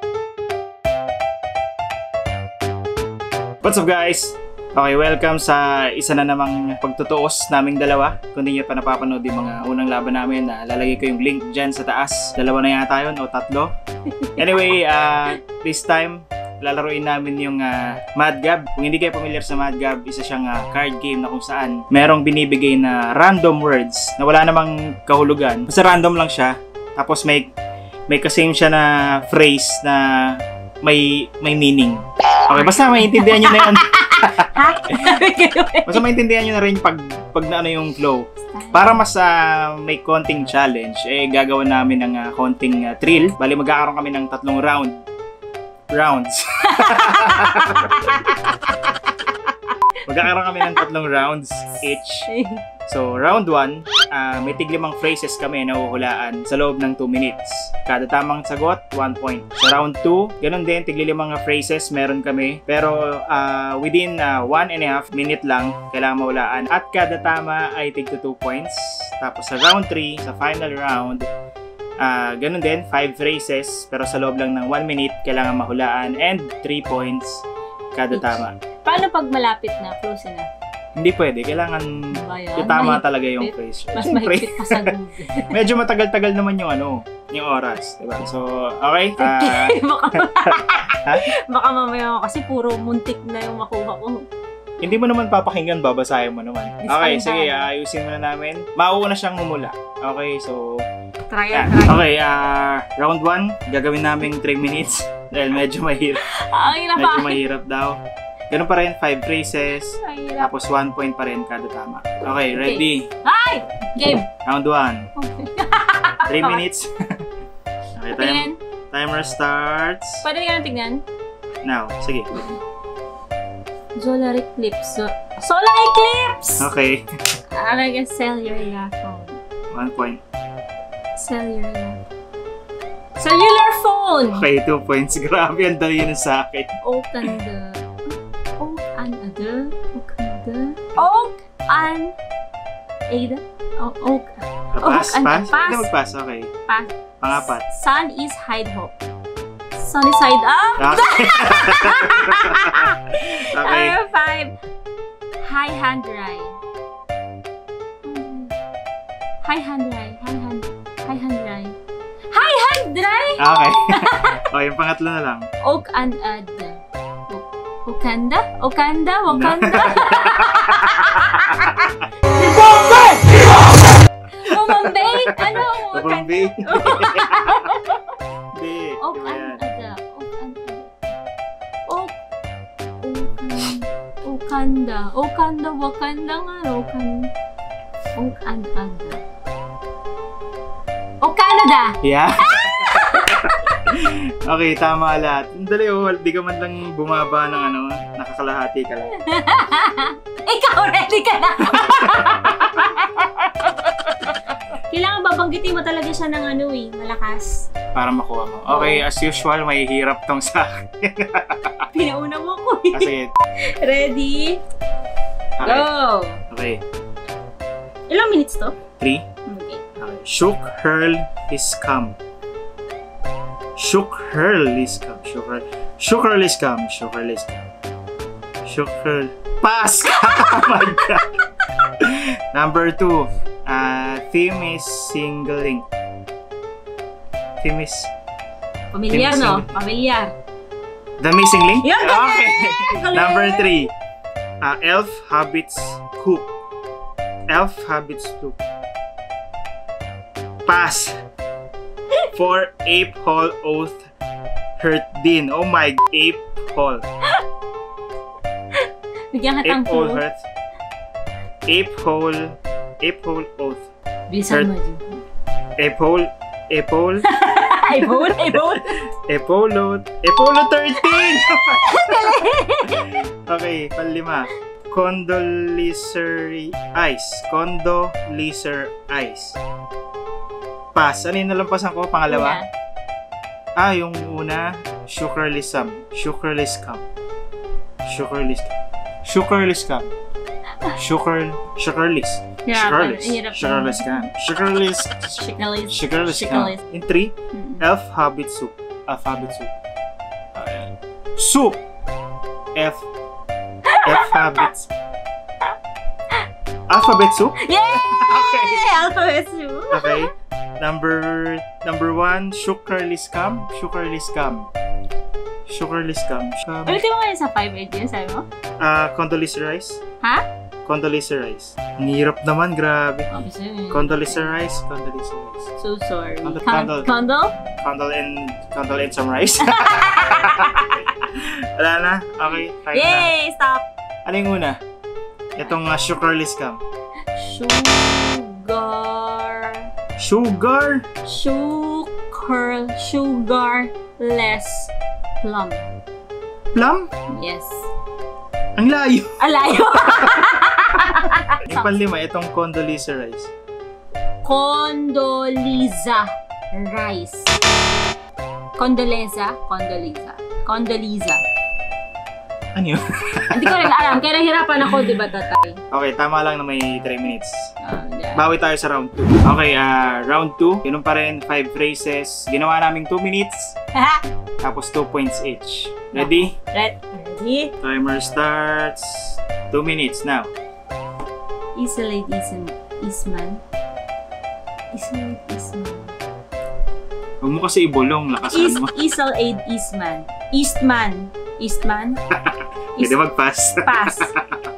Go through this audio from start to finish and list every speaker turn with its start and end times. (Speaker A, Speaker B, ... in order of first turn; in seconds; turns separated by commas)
Speaker A: 3.6-13.7, Speaker B: 14.1-14.7, Speaker A: 14.3-27.5, Speaker A: 28.1-34.5, Speaker B: 32.5-36.0, Speaker A: 35.8-45.0, Speaker B: 38.4-39.0, Speaker A: 45.9-48.5, Speaker B: 46.7-48.5, Speaker A: 50.0-52.3, Speaker B: 50.6-50.8, Speaker B: 52.3-52.6, Speaker A: 52.9-71.2, Speaker A: 72.0-78.5, Speaker B: 78.1-80.5, Speaker A: 81.0-91.2, Speaker B: 82.1-85.6, Speaker B: 89.2-94.2, Speaker A: 94.8-100.8, Speaker B: 96.8-97.7, Speaker B: 101.3-102.0, Speaker A: 101.5-106.3, Speaker B: 106.2-107.4, Speaker A: 106.9-113.1, Speaker B: 110.0-110.5, Speaker B: 112.5-114.3, Speaker A: 114.4-115.1, Speaker B: 115.2-116.6, Speaker A: 116.2-117.2, Speaker A: 117.9-120.2, Speaker B: 118.1-118.6, Speaker B: 120.2-121.0, Speaker A: 121.6-122.5, Speaker B: 124.0-126.7, Speaker A: 126.6-127.1, Speaker B: 127.5-129.4, Speaker A: 129.7-130.2, Speaker B: 131.2-132.0, Speaker B: 133.2-134.5, Speaker A: 134.3-136.8, Speaker B: 136.8-142.2, Speaker B: 143.1-145.9, Speaker A: 144.7-146.5, Speaker B: 146.7-149.0, Speaker A: 147.2-147.6, Speaker B: 149.8-154.5, Speaker A: 150.8-153.9, Speaker B: 155.4-156.6, Speaker B: 158.0-158.5, Speaker B: 159.4-161.8, Speaker B: 162.3-164.4, Speaker A: 163.4-165.4, Speaker B: 165.6-173.6, Speaker A: 169.3-172.1, Speaker B: 174.4-178.2, Speaker A: 174.4-177.7, Speaker A: 178.5-179.6, Speaker B: 179.0-181.0, Speaker B: 181.8-182.2, Speaker B: 183.0-187.3, Speaker B: 188.2-189.2, Speaker B: 191.2-193.8, Speaker A: 192.0-199.1, Speaker B: 199.1-203.7, Speaker A: 201.7-202.8, Speaker B: 204.8-207.6, Speaker A: 207.9-211.8, Speaker B: 208.7-209.0, Speaker B: 211.9-214.6, Speaker A: 212.9-213.3, Speaker A: 215.6-215.9, Speaker B: 215.6-216.4, Speaker A: 216.5-216.8, Speaker B: 218.1-218.8, Speaker A: 219.0-219.2, Speaker B: 219.4-219.8, Speaker A: 220.0-222.2, Speaker A: 223.8-227.7, Speaker A: 228.7-235.8, Speaker B: 230.0-230.8, Speaker A: 237.6-238.1, Speaker B: 238.9-240.3, Speaker A: 239.1-239.8, Speaker A: 241.2-243.9, Speaker B: 241.8-243.9, Speaker A: 244.6-246.5, Speaker A: 247.5-248.6, Speaker A: 250.7-251.2, Speaker A: 252.3-254.1, Speaker A: 254.8-257.0, Speaker B: 258.7-260.2, Speaker A: 259.6-260.4, Speaker A: 261.7-263.9, Speaker B: 264.3-265.1, Speaker A: 265.8-267.3, Speaker B: 267.2-269.0, Speaker A: 267.8-279.6, Speaker B: 271.1-273.2, Speaker A: 280.9-282.6, Speaker B: 282.3-282.7, Speaker A: 283.8-287.0, Speaker A: 288.1-290.1, Speaker A: 290.9-299.7, Speaker B: 292.7-294.3, Speaker B: 295.2-296.8, Speaker B: 297.5-297.8, Speaker A: 300.6-301.8, Speaker A: 302.8-303.1, Speaker B: 303.9-304.7, Speaker A: 304.0-304.9, Speaker A: 306.9-308.9, Speaker B: 307.6-310.3, Speaker A: 309.9-314.7, Speaker A: 315.7-317.0, Speaker B: 316.9-318.5, Speaker A: 318.8-320.0, Speaker A: 320.9-323.3, Speaker B: 323.3-324.6, Speaker A: 323.9-325.7, Speaker B: 325.8-327.6, Speaker A: 326.4-327.1, Speaker A: 327.8-333.3, Speaker B: 329.6-331.1, Speaker B: 332.9-333.9, Speaker A: 334.2-334.8, Speaker A: 335.6-336.8, Speaker B: 337.3-339.9, Speaker A: 340.2-341.1, Speaker B: 341.2-345.9, Speaker A: 346.7-347.1, Speaker B: 347.3-347.9, Speaker A: 348.8-349.4, Speaker B: 349.4-352.0, Speaker A: 351.6-353.5, Speaker B: 354.4-357.6, Speaker B: 358.8-361.4, Speaker A: 362.8-364.1, Speaker B: 363.5-365.8, Speaker A: 365.9-367.7, Speaker B: 367.8-368.5, Speaker A: 368.4-373.8, Speaker B: 373.9-374.3, Speaker A: 374.6-376.5, Speaker B: 376.1-377.7, Speaker A: 377.8-380.5, Speaker B: 381.8-383.6, Speaker B: 384.9-386.1, Speaker A: 387.4-388.9, Speaker B: 388.5-392.2, Speaker A: 392.3-394.6, Speaker B: 393.8-394.3